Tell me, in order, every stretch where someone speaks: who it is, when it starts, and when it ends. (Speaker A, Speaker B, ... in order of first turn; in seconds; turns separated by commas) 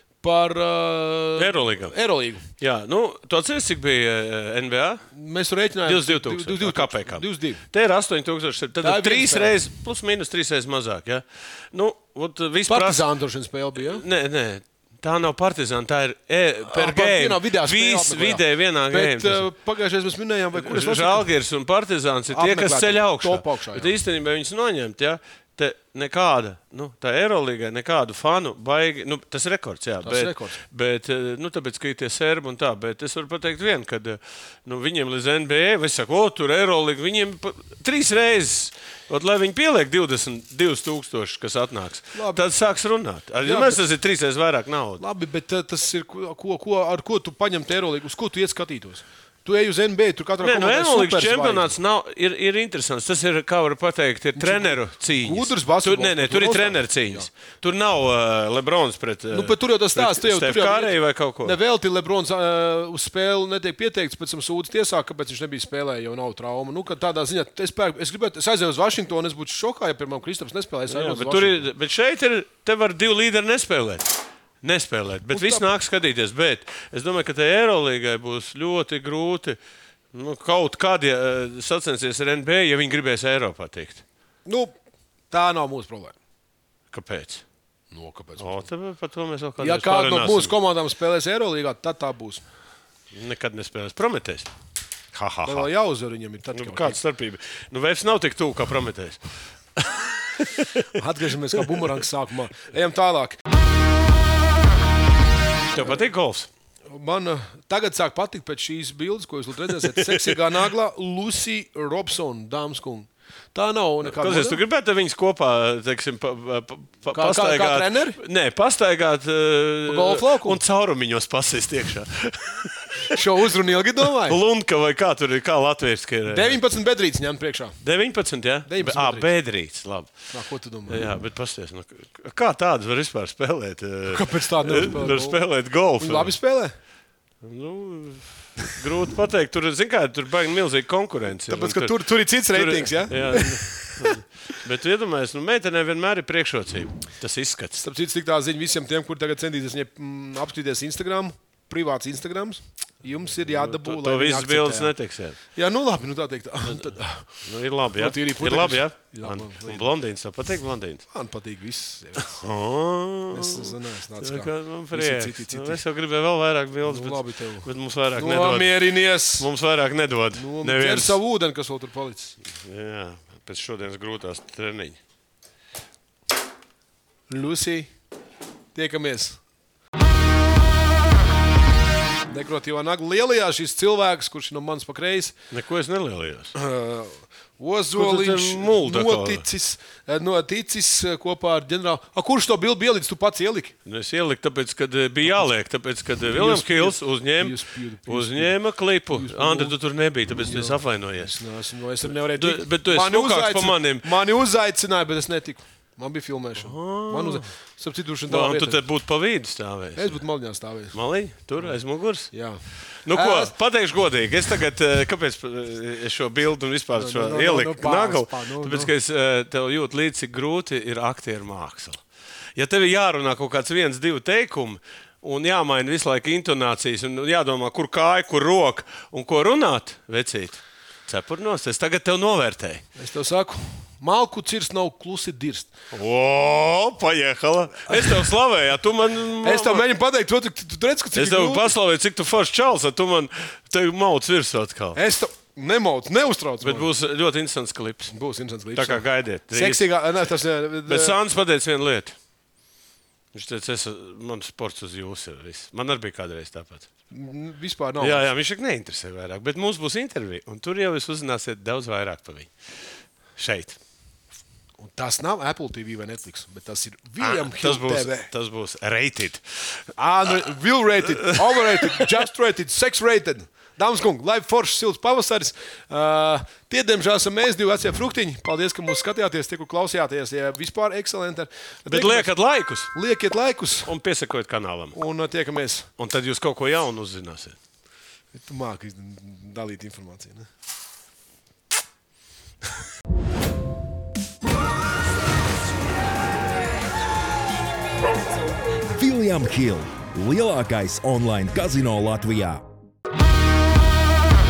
Speaker A: 0.2-2.4, Speaker B: 1.4-1.9, Speaker B: 2.6-5.0, Speaker A: 5.1-7.6, Speaker B: 5.8-13.1, Speaker A: 8.8-9.5, Speaker A: 12.7-14.0, Speaker B: 13.7-19.5, Speaker A: 16.7-21.3, Speaker B: 20.5-45.0, Speaker A: 22.3-23.9, Speaker A: 30.0-30.6, Speaker A: 42.1-42.4, Speaker A: 43.4-43.8, Speaker A: 45.0-51.7, Speaker B: 50.4-61.6, Speaker A: 54.4-57.3, Speaker A: 59.3-71.7, Speaker B: 70.9-79.6, Speaker A: 75.3-75.7, Speaker B: 80.1-84.0, Speaker A: 84.5-84.8, Speaker A: 85.3-86.2, Speaker B: 86.9-87.4, Speaker A: 87.9-88.7, Speaker B: 88.4-90.5, Speaker A: 89.6-92.4, Speaker B: 93.1-94.5, Speaker B: 95.1-95.7, Speaker A: 95.5-97.0, Speaker B: 96.5-100.8, Speaker A: 100.9-103.4, Speaker B: 101.6-101.9, Speaker B: 105.7-106.5, Speaker A: 106.9-114.6, Speaker B: 109.8-110.4, Speaker B: 114.0-123.2, Speaker A: 117.1-118.2, Speaker A: 119.8-120.6, Speaker A: 123.1-124.4, Speaker B: 124.2-126.6, Speaker A: 126.3-127.8, Speaker B: 127.8-130.2, Speaker A: 128.7-129.3, Speaker A: 130.3-131.0, Speaker B: 130.9-136.3, Speaker A: 134.1-135.4, Speaker A: 136.0-136.7, Speaker B: 137.4-147.8, Speaker A: 141.5-144.2, Speaker A: 147.8-154.9, Speaker B: 153.4-155.4, Speaker A: 155.4-159.9, Speaker B: 156.7-161.0, Speaker A: 161.1-162.4, Speaker B: 162.2-171.2, Speaker A: 163.3-165.8, Speaker A: 166.8-169.5, Speaker A: 170.3-172.4, Speaker B: 172.5-175.0, Speaker A: 177.3-177.9, Speaker A: 178.7-179.4, Speaker A: 182.3-185.3, Speaker B: 185.5-186.5, Speaker A: 186.5-193.7, Speaker B: 187.9-189.4, Speaker B: 193.8-201.4, Speaker A: 196.3-198.5, Speaker A: 199.1-199.8, Speaker A: 200.4-208.8, Speaker B: 202.1-204.0, Speaker B: 206.6-207.4, Speaker B: 208.3-210.2, Speaker A: 209.9-211.0, Speaker B: 210.9-212.5, Speaker A: 212.3-213.5, Speaker B: 213.0-222.0, Speaker A: 216.9-218.9, Speaker B: 222.6-232.8, Speaker A: 233.0-235.7, Speaker B: 235.9-239.8, Speaker A: 237.8-238.3, Speaker A: 239.4-241.7, Speaker B: 241.1-245.0, Speaker A: 244.9-246.9, Speaker B: 246.6-248.1, Speaker A: 248.1-251.2, Speaker B: 248.7-249.8, Speaker B: 250.9-252.2, Speaker B: 253.3-256.9, Speaker A: 257.1-258.3, Speaker B: 258.0-262.5, Speaker B: 263.4-263.8, Speaker A: 264.8-268.3, Speaker B: 267.2-269.8, Speaker A: 269.9-282.3, Speaker B: 271.2-272.1, Speaker B: 281.9-282.9, Speaker A: 282.9-283.9, Speaker B: 283.9-285.0, Speaker A: 284.9-285.9, Speaker B: 286.0-287.6, Speaker A: 288.3-290.5, Speaker C: 298.9-302.6